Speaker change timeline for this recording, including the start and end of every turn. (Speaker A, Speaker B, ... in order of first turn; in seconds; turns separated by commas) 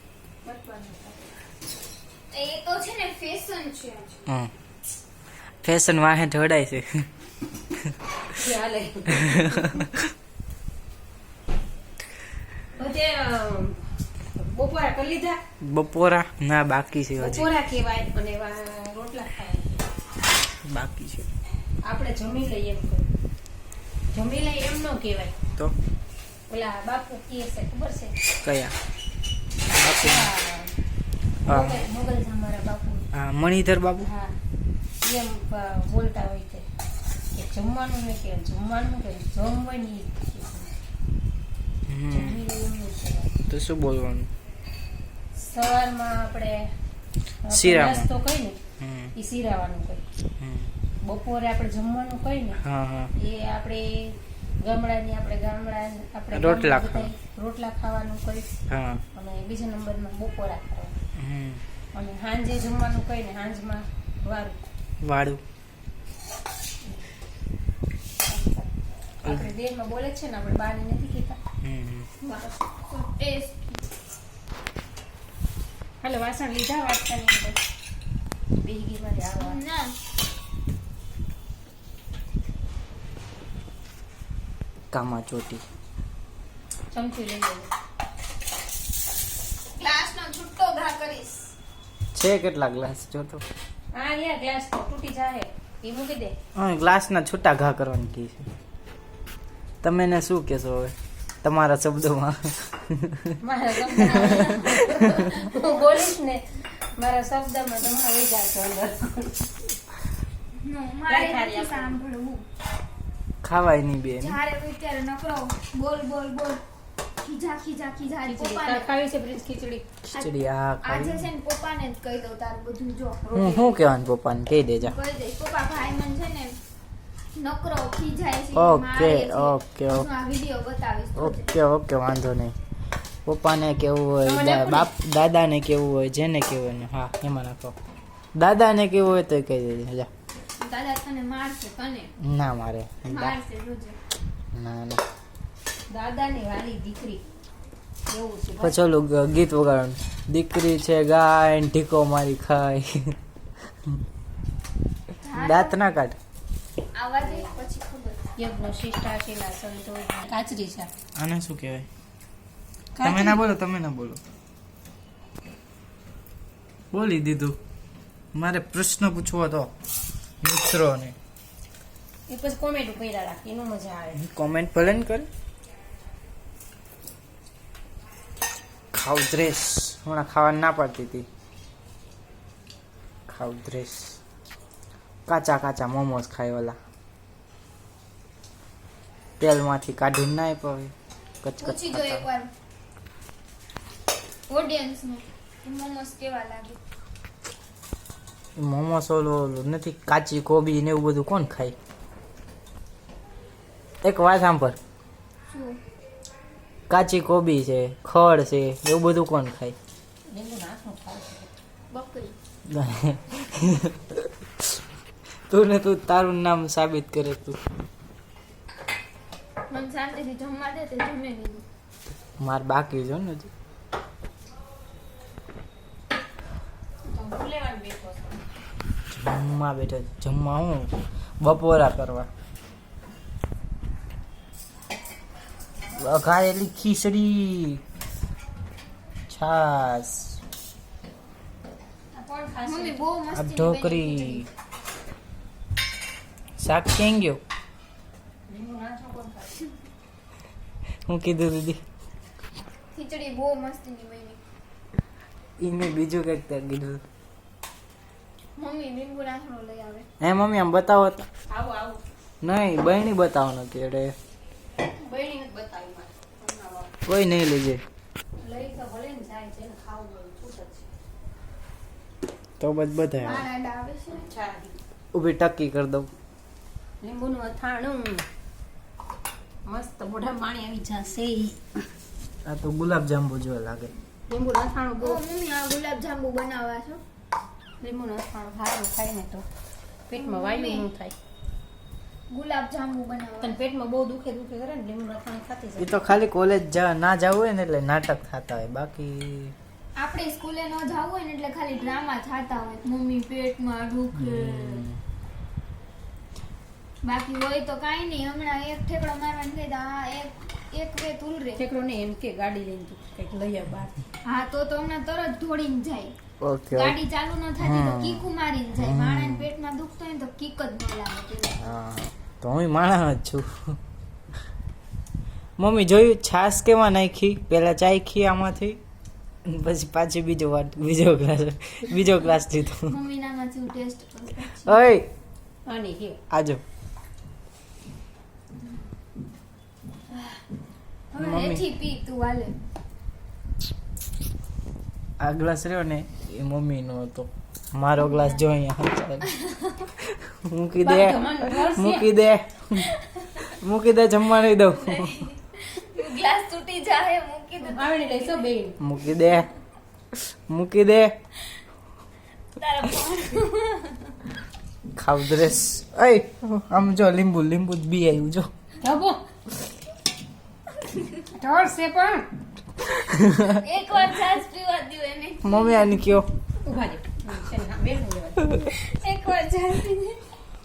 Speaker A: 0.4-1.3, Speaker B: 2.3-4.2, Speaker C: 4.3-4.5, Speaker C: 5.6-7.1, Speaker A: 8.3-9.8, Speaker C: 9.1-10.1, Speaker A: 12.8-15.4, Speaker C: 15.6-17.5, Speaker A: 17.2-19.8, Speaker C: 20.6-21.3, Speaker A: 21.8-23.1, Speaker A: 24.1-25.4, Speaker A: 26.5-28.2, Speaker C: 28.4-28.8, Speaker C: 29.7-30.3, Speaker A: 29.8-30.8, Speaker A: 31.4-33.1, Speaker C: 31.5-31.9, Speaker C: 33.1-34.1, Speaker A: 34.0-34.4, Speaker A: 35.0-36.7, Speaker A: 37.3-40.8, Speaker C: 41.9-42.4, Speaker A: 42.1-43.4, Speaker C: 43.5-44.3, Speaker A: 45.4-46.7, Speaker A: 47.4-48.6, Speaker C: 47.5-48.1, Speaker C: 48.8-49.1, Speaker A: 49.1-50.0, Speaker C: 50.4-50.7, Speaker A: 51.0-52.6, Speaker C: 52.6-53.1, Speaker A: 53.2-58.5, Speaker C: 56.3-57.1, Speaker C: 58.7-59.0, Speaker A: 59.1-61.0, Speaker C: 61.2-61.6, Speaker A: 61.9-64.6, Speaker C: 65.0-65.4, Speaker A: 68.2-68.7, Speaker A: 69.2-71.4, Speaker C: 69.2-69.5, Speaker C: 71.6-72.1, Speaker B: 72.2-73.8, Speaker A: 76.0-77.6, Speaker A: 78.6-79.6, Speaker B: 79.4-79.9, Speaker C: 84.9-85.6, Speaker A: 86.9-87.7, Speaker B: 89.8-91.5, Speaker C: 92.1-93.4, Speaker A: 93.9-96.4, Speaker C: 96.5-98.5, Speaker C: 99.8-103.4, Speaker A: 103.4-109.5, Speaker C: 103.9-105.3, Speaker B: 110.6-112.4, Speaker A: 111.1-112.0, Speaker C: 113.4-114.4, Speaker B: 114.2-116.6, Speaker B: 117.2-118.9, Speaker A: 118.2-119.8, Speaker C: 120.0-121.3, Speaker B: 120.8-123.2, Speaker A: 123.2-123.8, Speaker C: 123.3-125.0, Speaker B: 124.8-126.6, Speaker B: 127.4-131.5, Speaker C: 128.5-130.1, Speaker C: 131.2-132.5, Speaker C: 133.3-137.8, Speaker A: 134.2-134.9, Speaker C: 138.3-140.1, Speaker B: 140.6-142.1, Speaker C: 142.2-143.4, Speaker B: 143.1-144.0, Speaker C: 144.5-145.0, Speaker A: 145.9-147.2, Speaker A: 148.1-148.8, Speaker C: 148.6-153.2, Speaker B: 155.2-155.8, Speaker C: 155.3-156.2, Speaker B: 156.9-158.2, Speaker A: 157.2-157.6, Speaker A: 158.4-160.9, Speaker C: 161.2-161.9, Speaker A: 163.0-163.4, Speaker C: 163.0-164.2, Speaker C: 166.9-167.6, Speaker C: 168.3-169.7, Speaker C: 170.4-171.2, Speaker A: 172.3-174.2, Speaker C: 174.2-175.3, Speaker C: 178.9-181.3, Speaker C: 183.3-184.2, Speaker C: 185.3-186.8, Speaker C: 189.4-192.2, Speaker B: 191.6-192.5, Speaker B: 194.5-196.8, Speaker C: 198.6-201.8, Speaker C: 204.0-204.8, Speaker B: 205.5-205.8, Speaker C: 206.9-209.8, Speaker A: 210.3-211.5, Speaker B: 211.9-212.4, Speaker C: 212.7-214.7, Speaker C: 215.5-217.6, Speaker B: 219.7-221.6, Speaker C: 222.4-223.5, Speaker A: 227.1-228.4, Speaker C: 229.1-232.3, Speaker C: 235.9-237.8, Speaker C: 239.3-240.4, Speaker A: 242.1-243.0, Speaker B: 242.7-244.5, Speaker C: 243.3-244.5, Speaker C: 246.6-247.4, Speaker A: 248.5-249.7, Speaker C: 251.1-251.8, Speaker B: 252.9-254.4, Speaker C: 255.6-257.0, Speaker B: 258.6-260.1, Speaker C: 260.2-261.3, Speaker A: 261.5-262.0, Speaker C: 262.4-264.1, Speaker A: 264.9-266.9, Speaker C: 267.1-267.8, Speaker A: 268.4-270.9, Speaker C: 272.6-273.5, Speaker B: 273.2-274.3, Speaker A: 274.1-274.8, Speaker C: 275.1-276.1, Speaker A: 277.0-278.3, Speaker A: 279.7-281.7, Speaker C: 282.4-283.9, Speaker A: 284.3-285.2, Speaker B: 285.0-287.0, Speaker A: 287.8-289.5, Speaker A: 290.1-291.1, Speaker B: 290.2-290.9, Speaker B: 292.3-293.6, Speaker A: 293.4-296.1, Speaker C: 295.8-299.6, Speaker B: 300.0-304.9, Speaker C: 304.1-305.0, Speaker B: 307.0-311.6, Speaker A: 311.6-314.0, Speaker B: 314.2-316.1, Speaker C: 316.4-317.0, Speaker B: 316.7-321.7, Speaker C: 317.6-319.5, Speaker C: 321.6-323.8, Speaker C: 325.6-328.8, Speaker C: 329.5-332.9, Speaker B: 332.9-334.8, Speaker C: 334.6-335.1, Speaker A: 335.7-336.2, Speaker C: 336.3-336.6, Speaker B: 340.1-340.4, Speaker B: 341.1-342.6, Speaker C: 341.2-341.6, Speaker C: 345.2-349.3, Speaker B: 348.1-348.4, Speaker B: 349.3-349.9, Speaker C: 350.0-352.9, Speaker A: 350.8-352.1, Speaker B: 352.8-353.4, Speaker C: 353.4-355.2, Speaker B: 354.8-358.5, Speaker A: 357.6-358.8, Speaker C: 358.8-359.5, Speaker C: 360.2-361.1, Speaker B: 362.6-364.1, Speaker C: 365.0-368.5, Speaker A: 368.8-369.2, Speaker A: 371.3-372.3, Speaker C: 373.0-373.5, Speaker B: 373.5-376.0, Speaker C: 375.4-376.3, Speaker A: 376.6-378.6, Speaker B: 378.5-380.2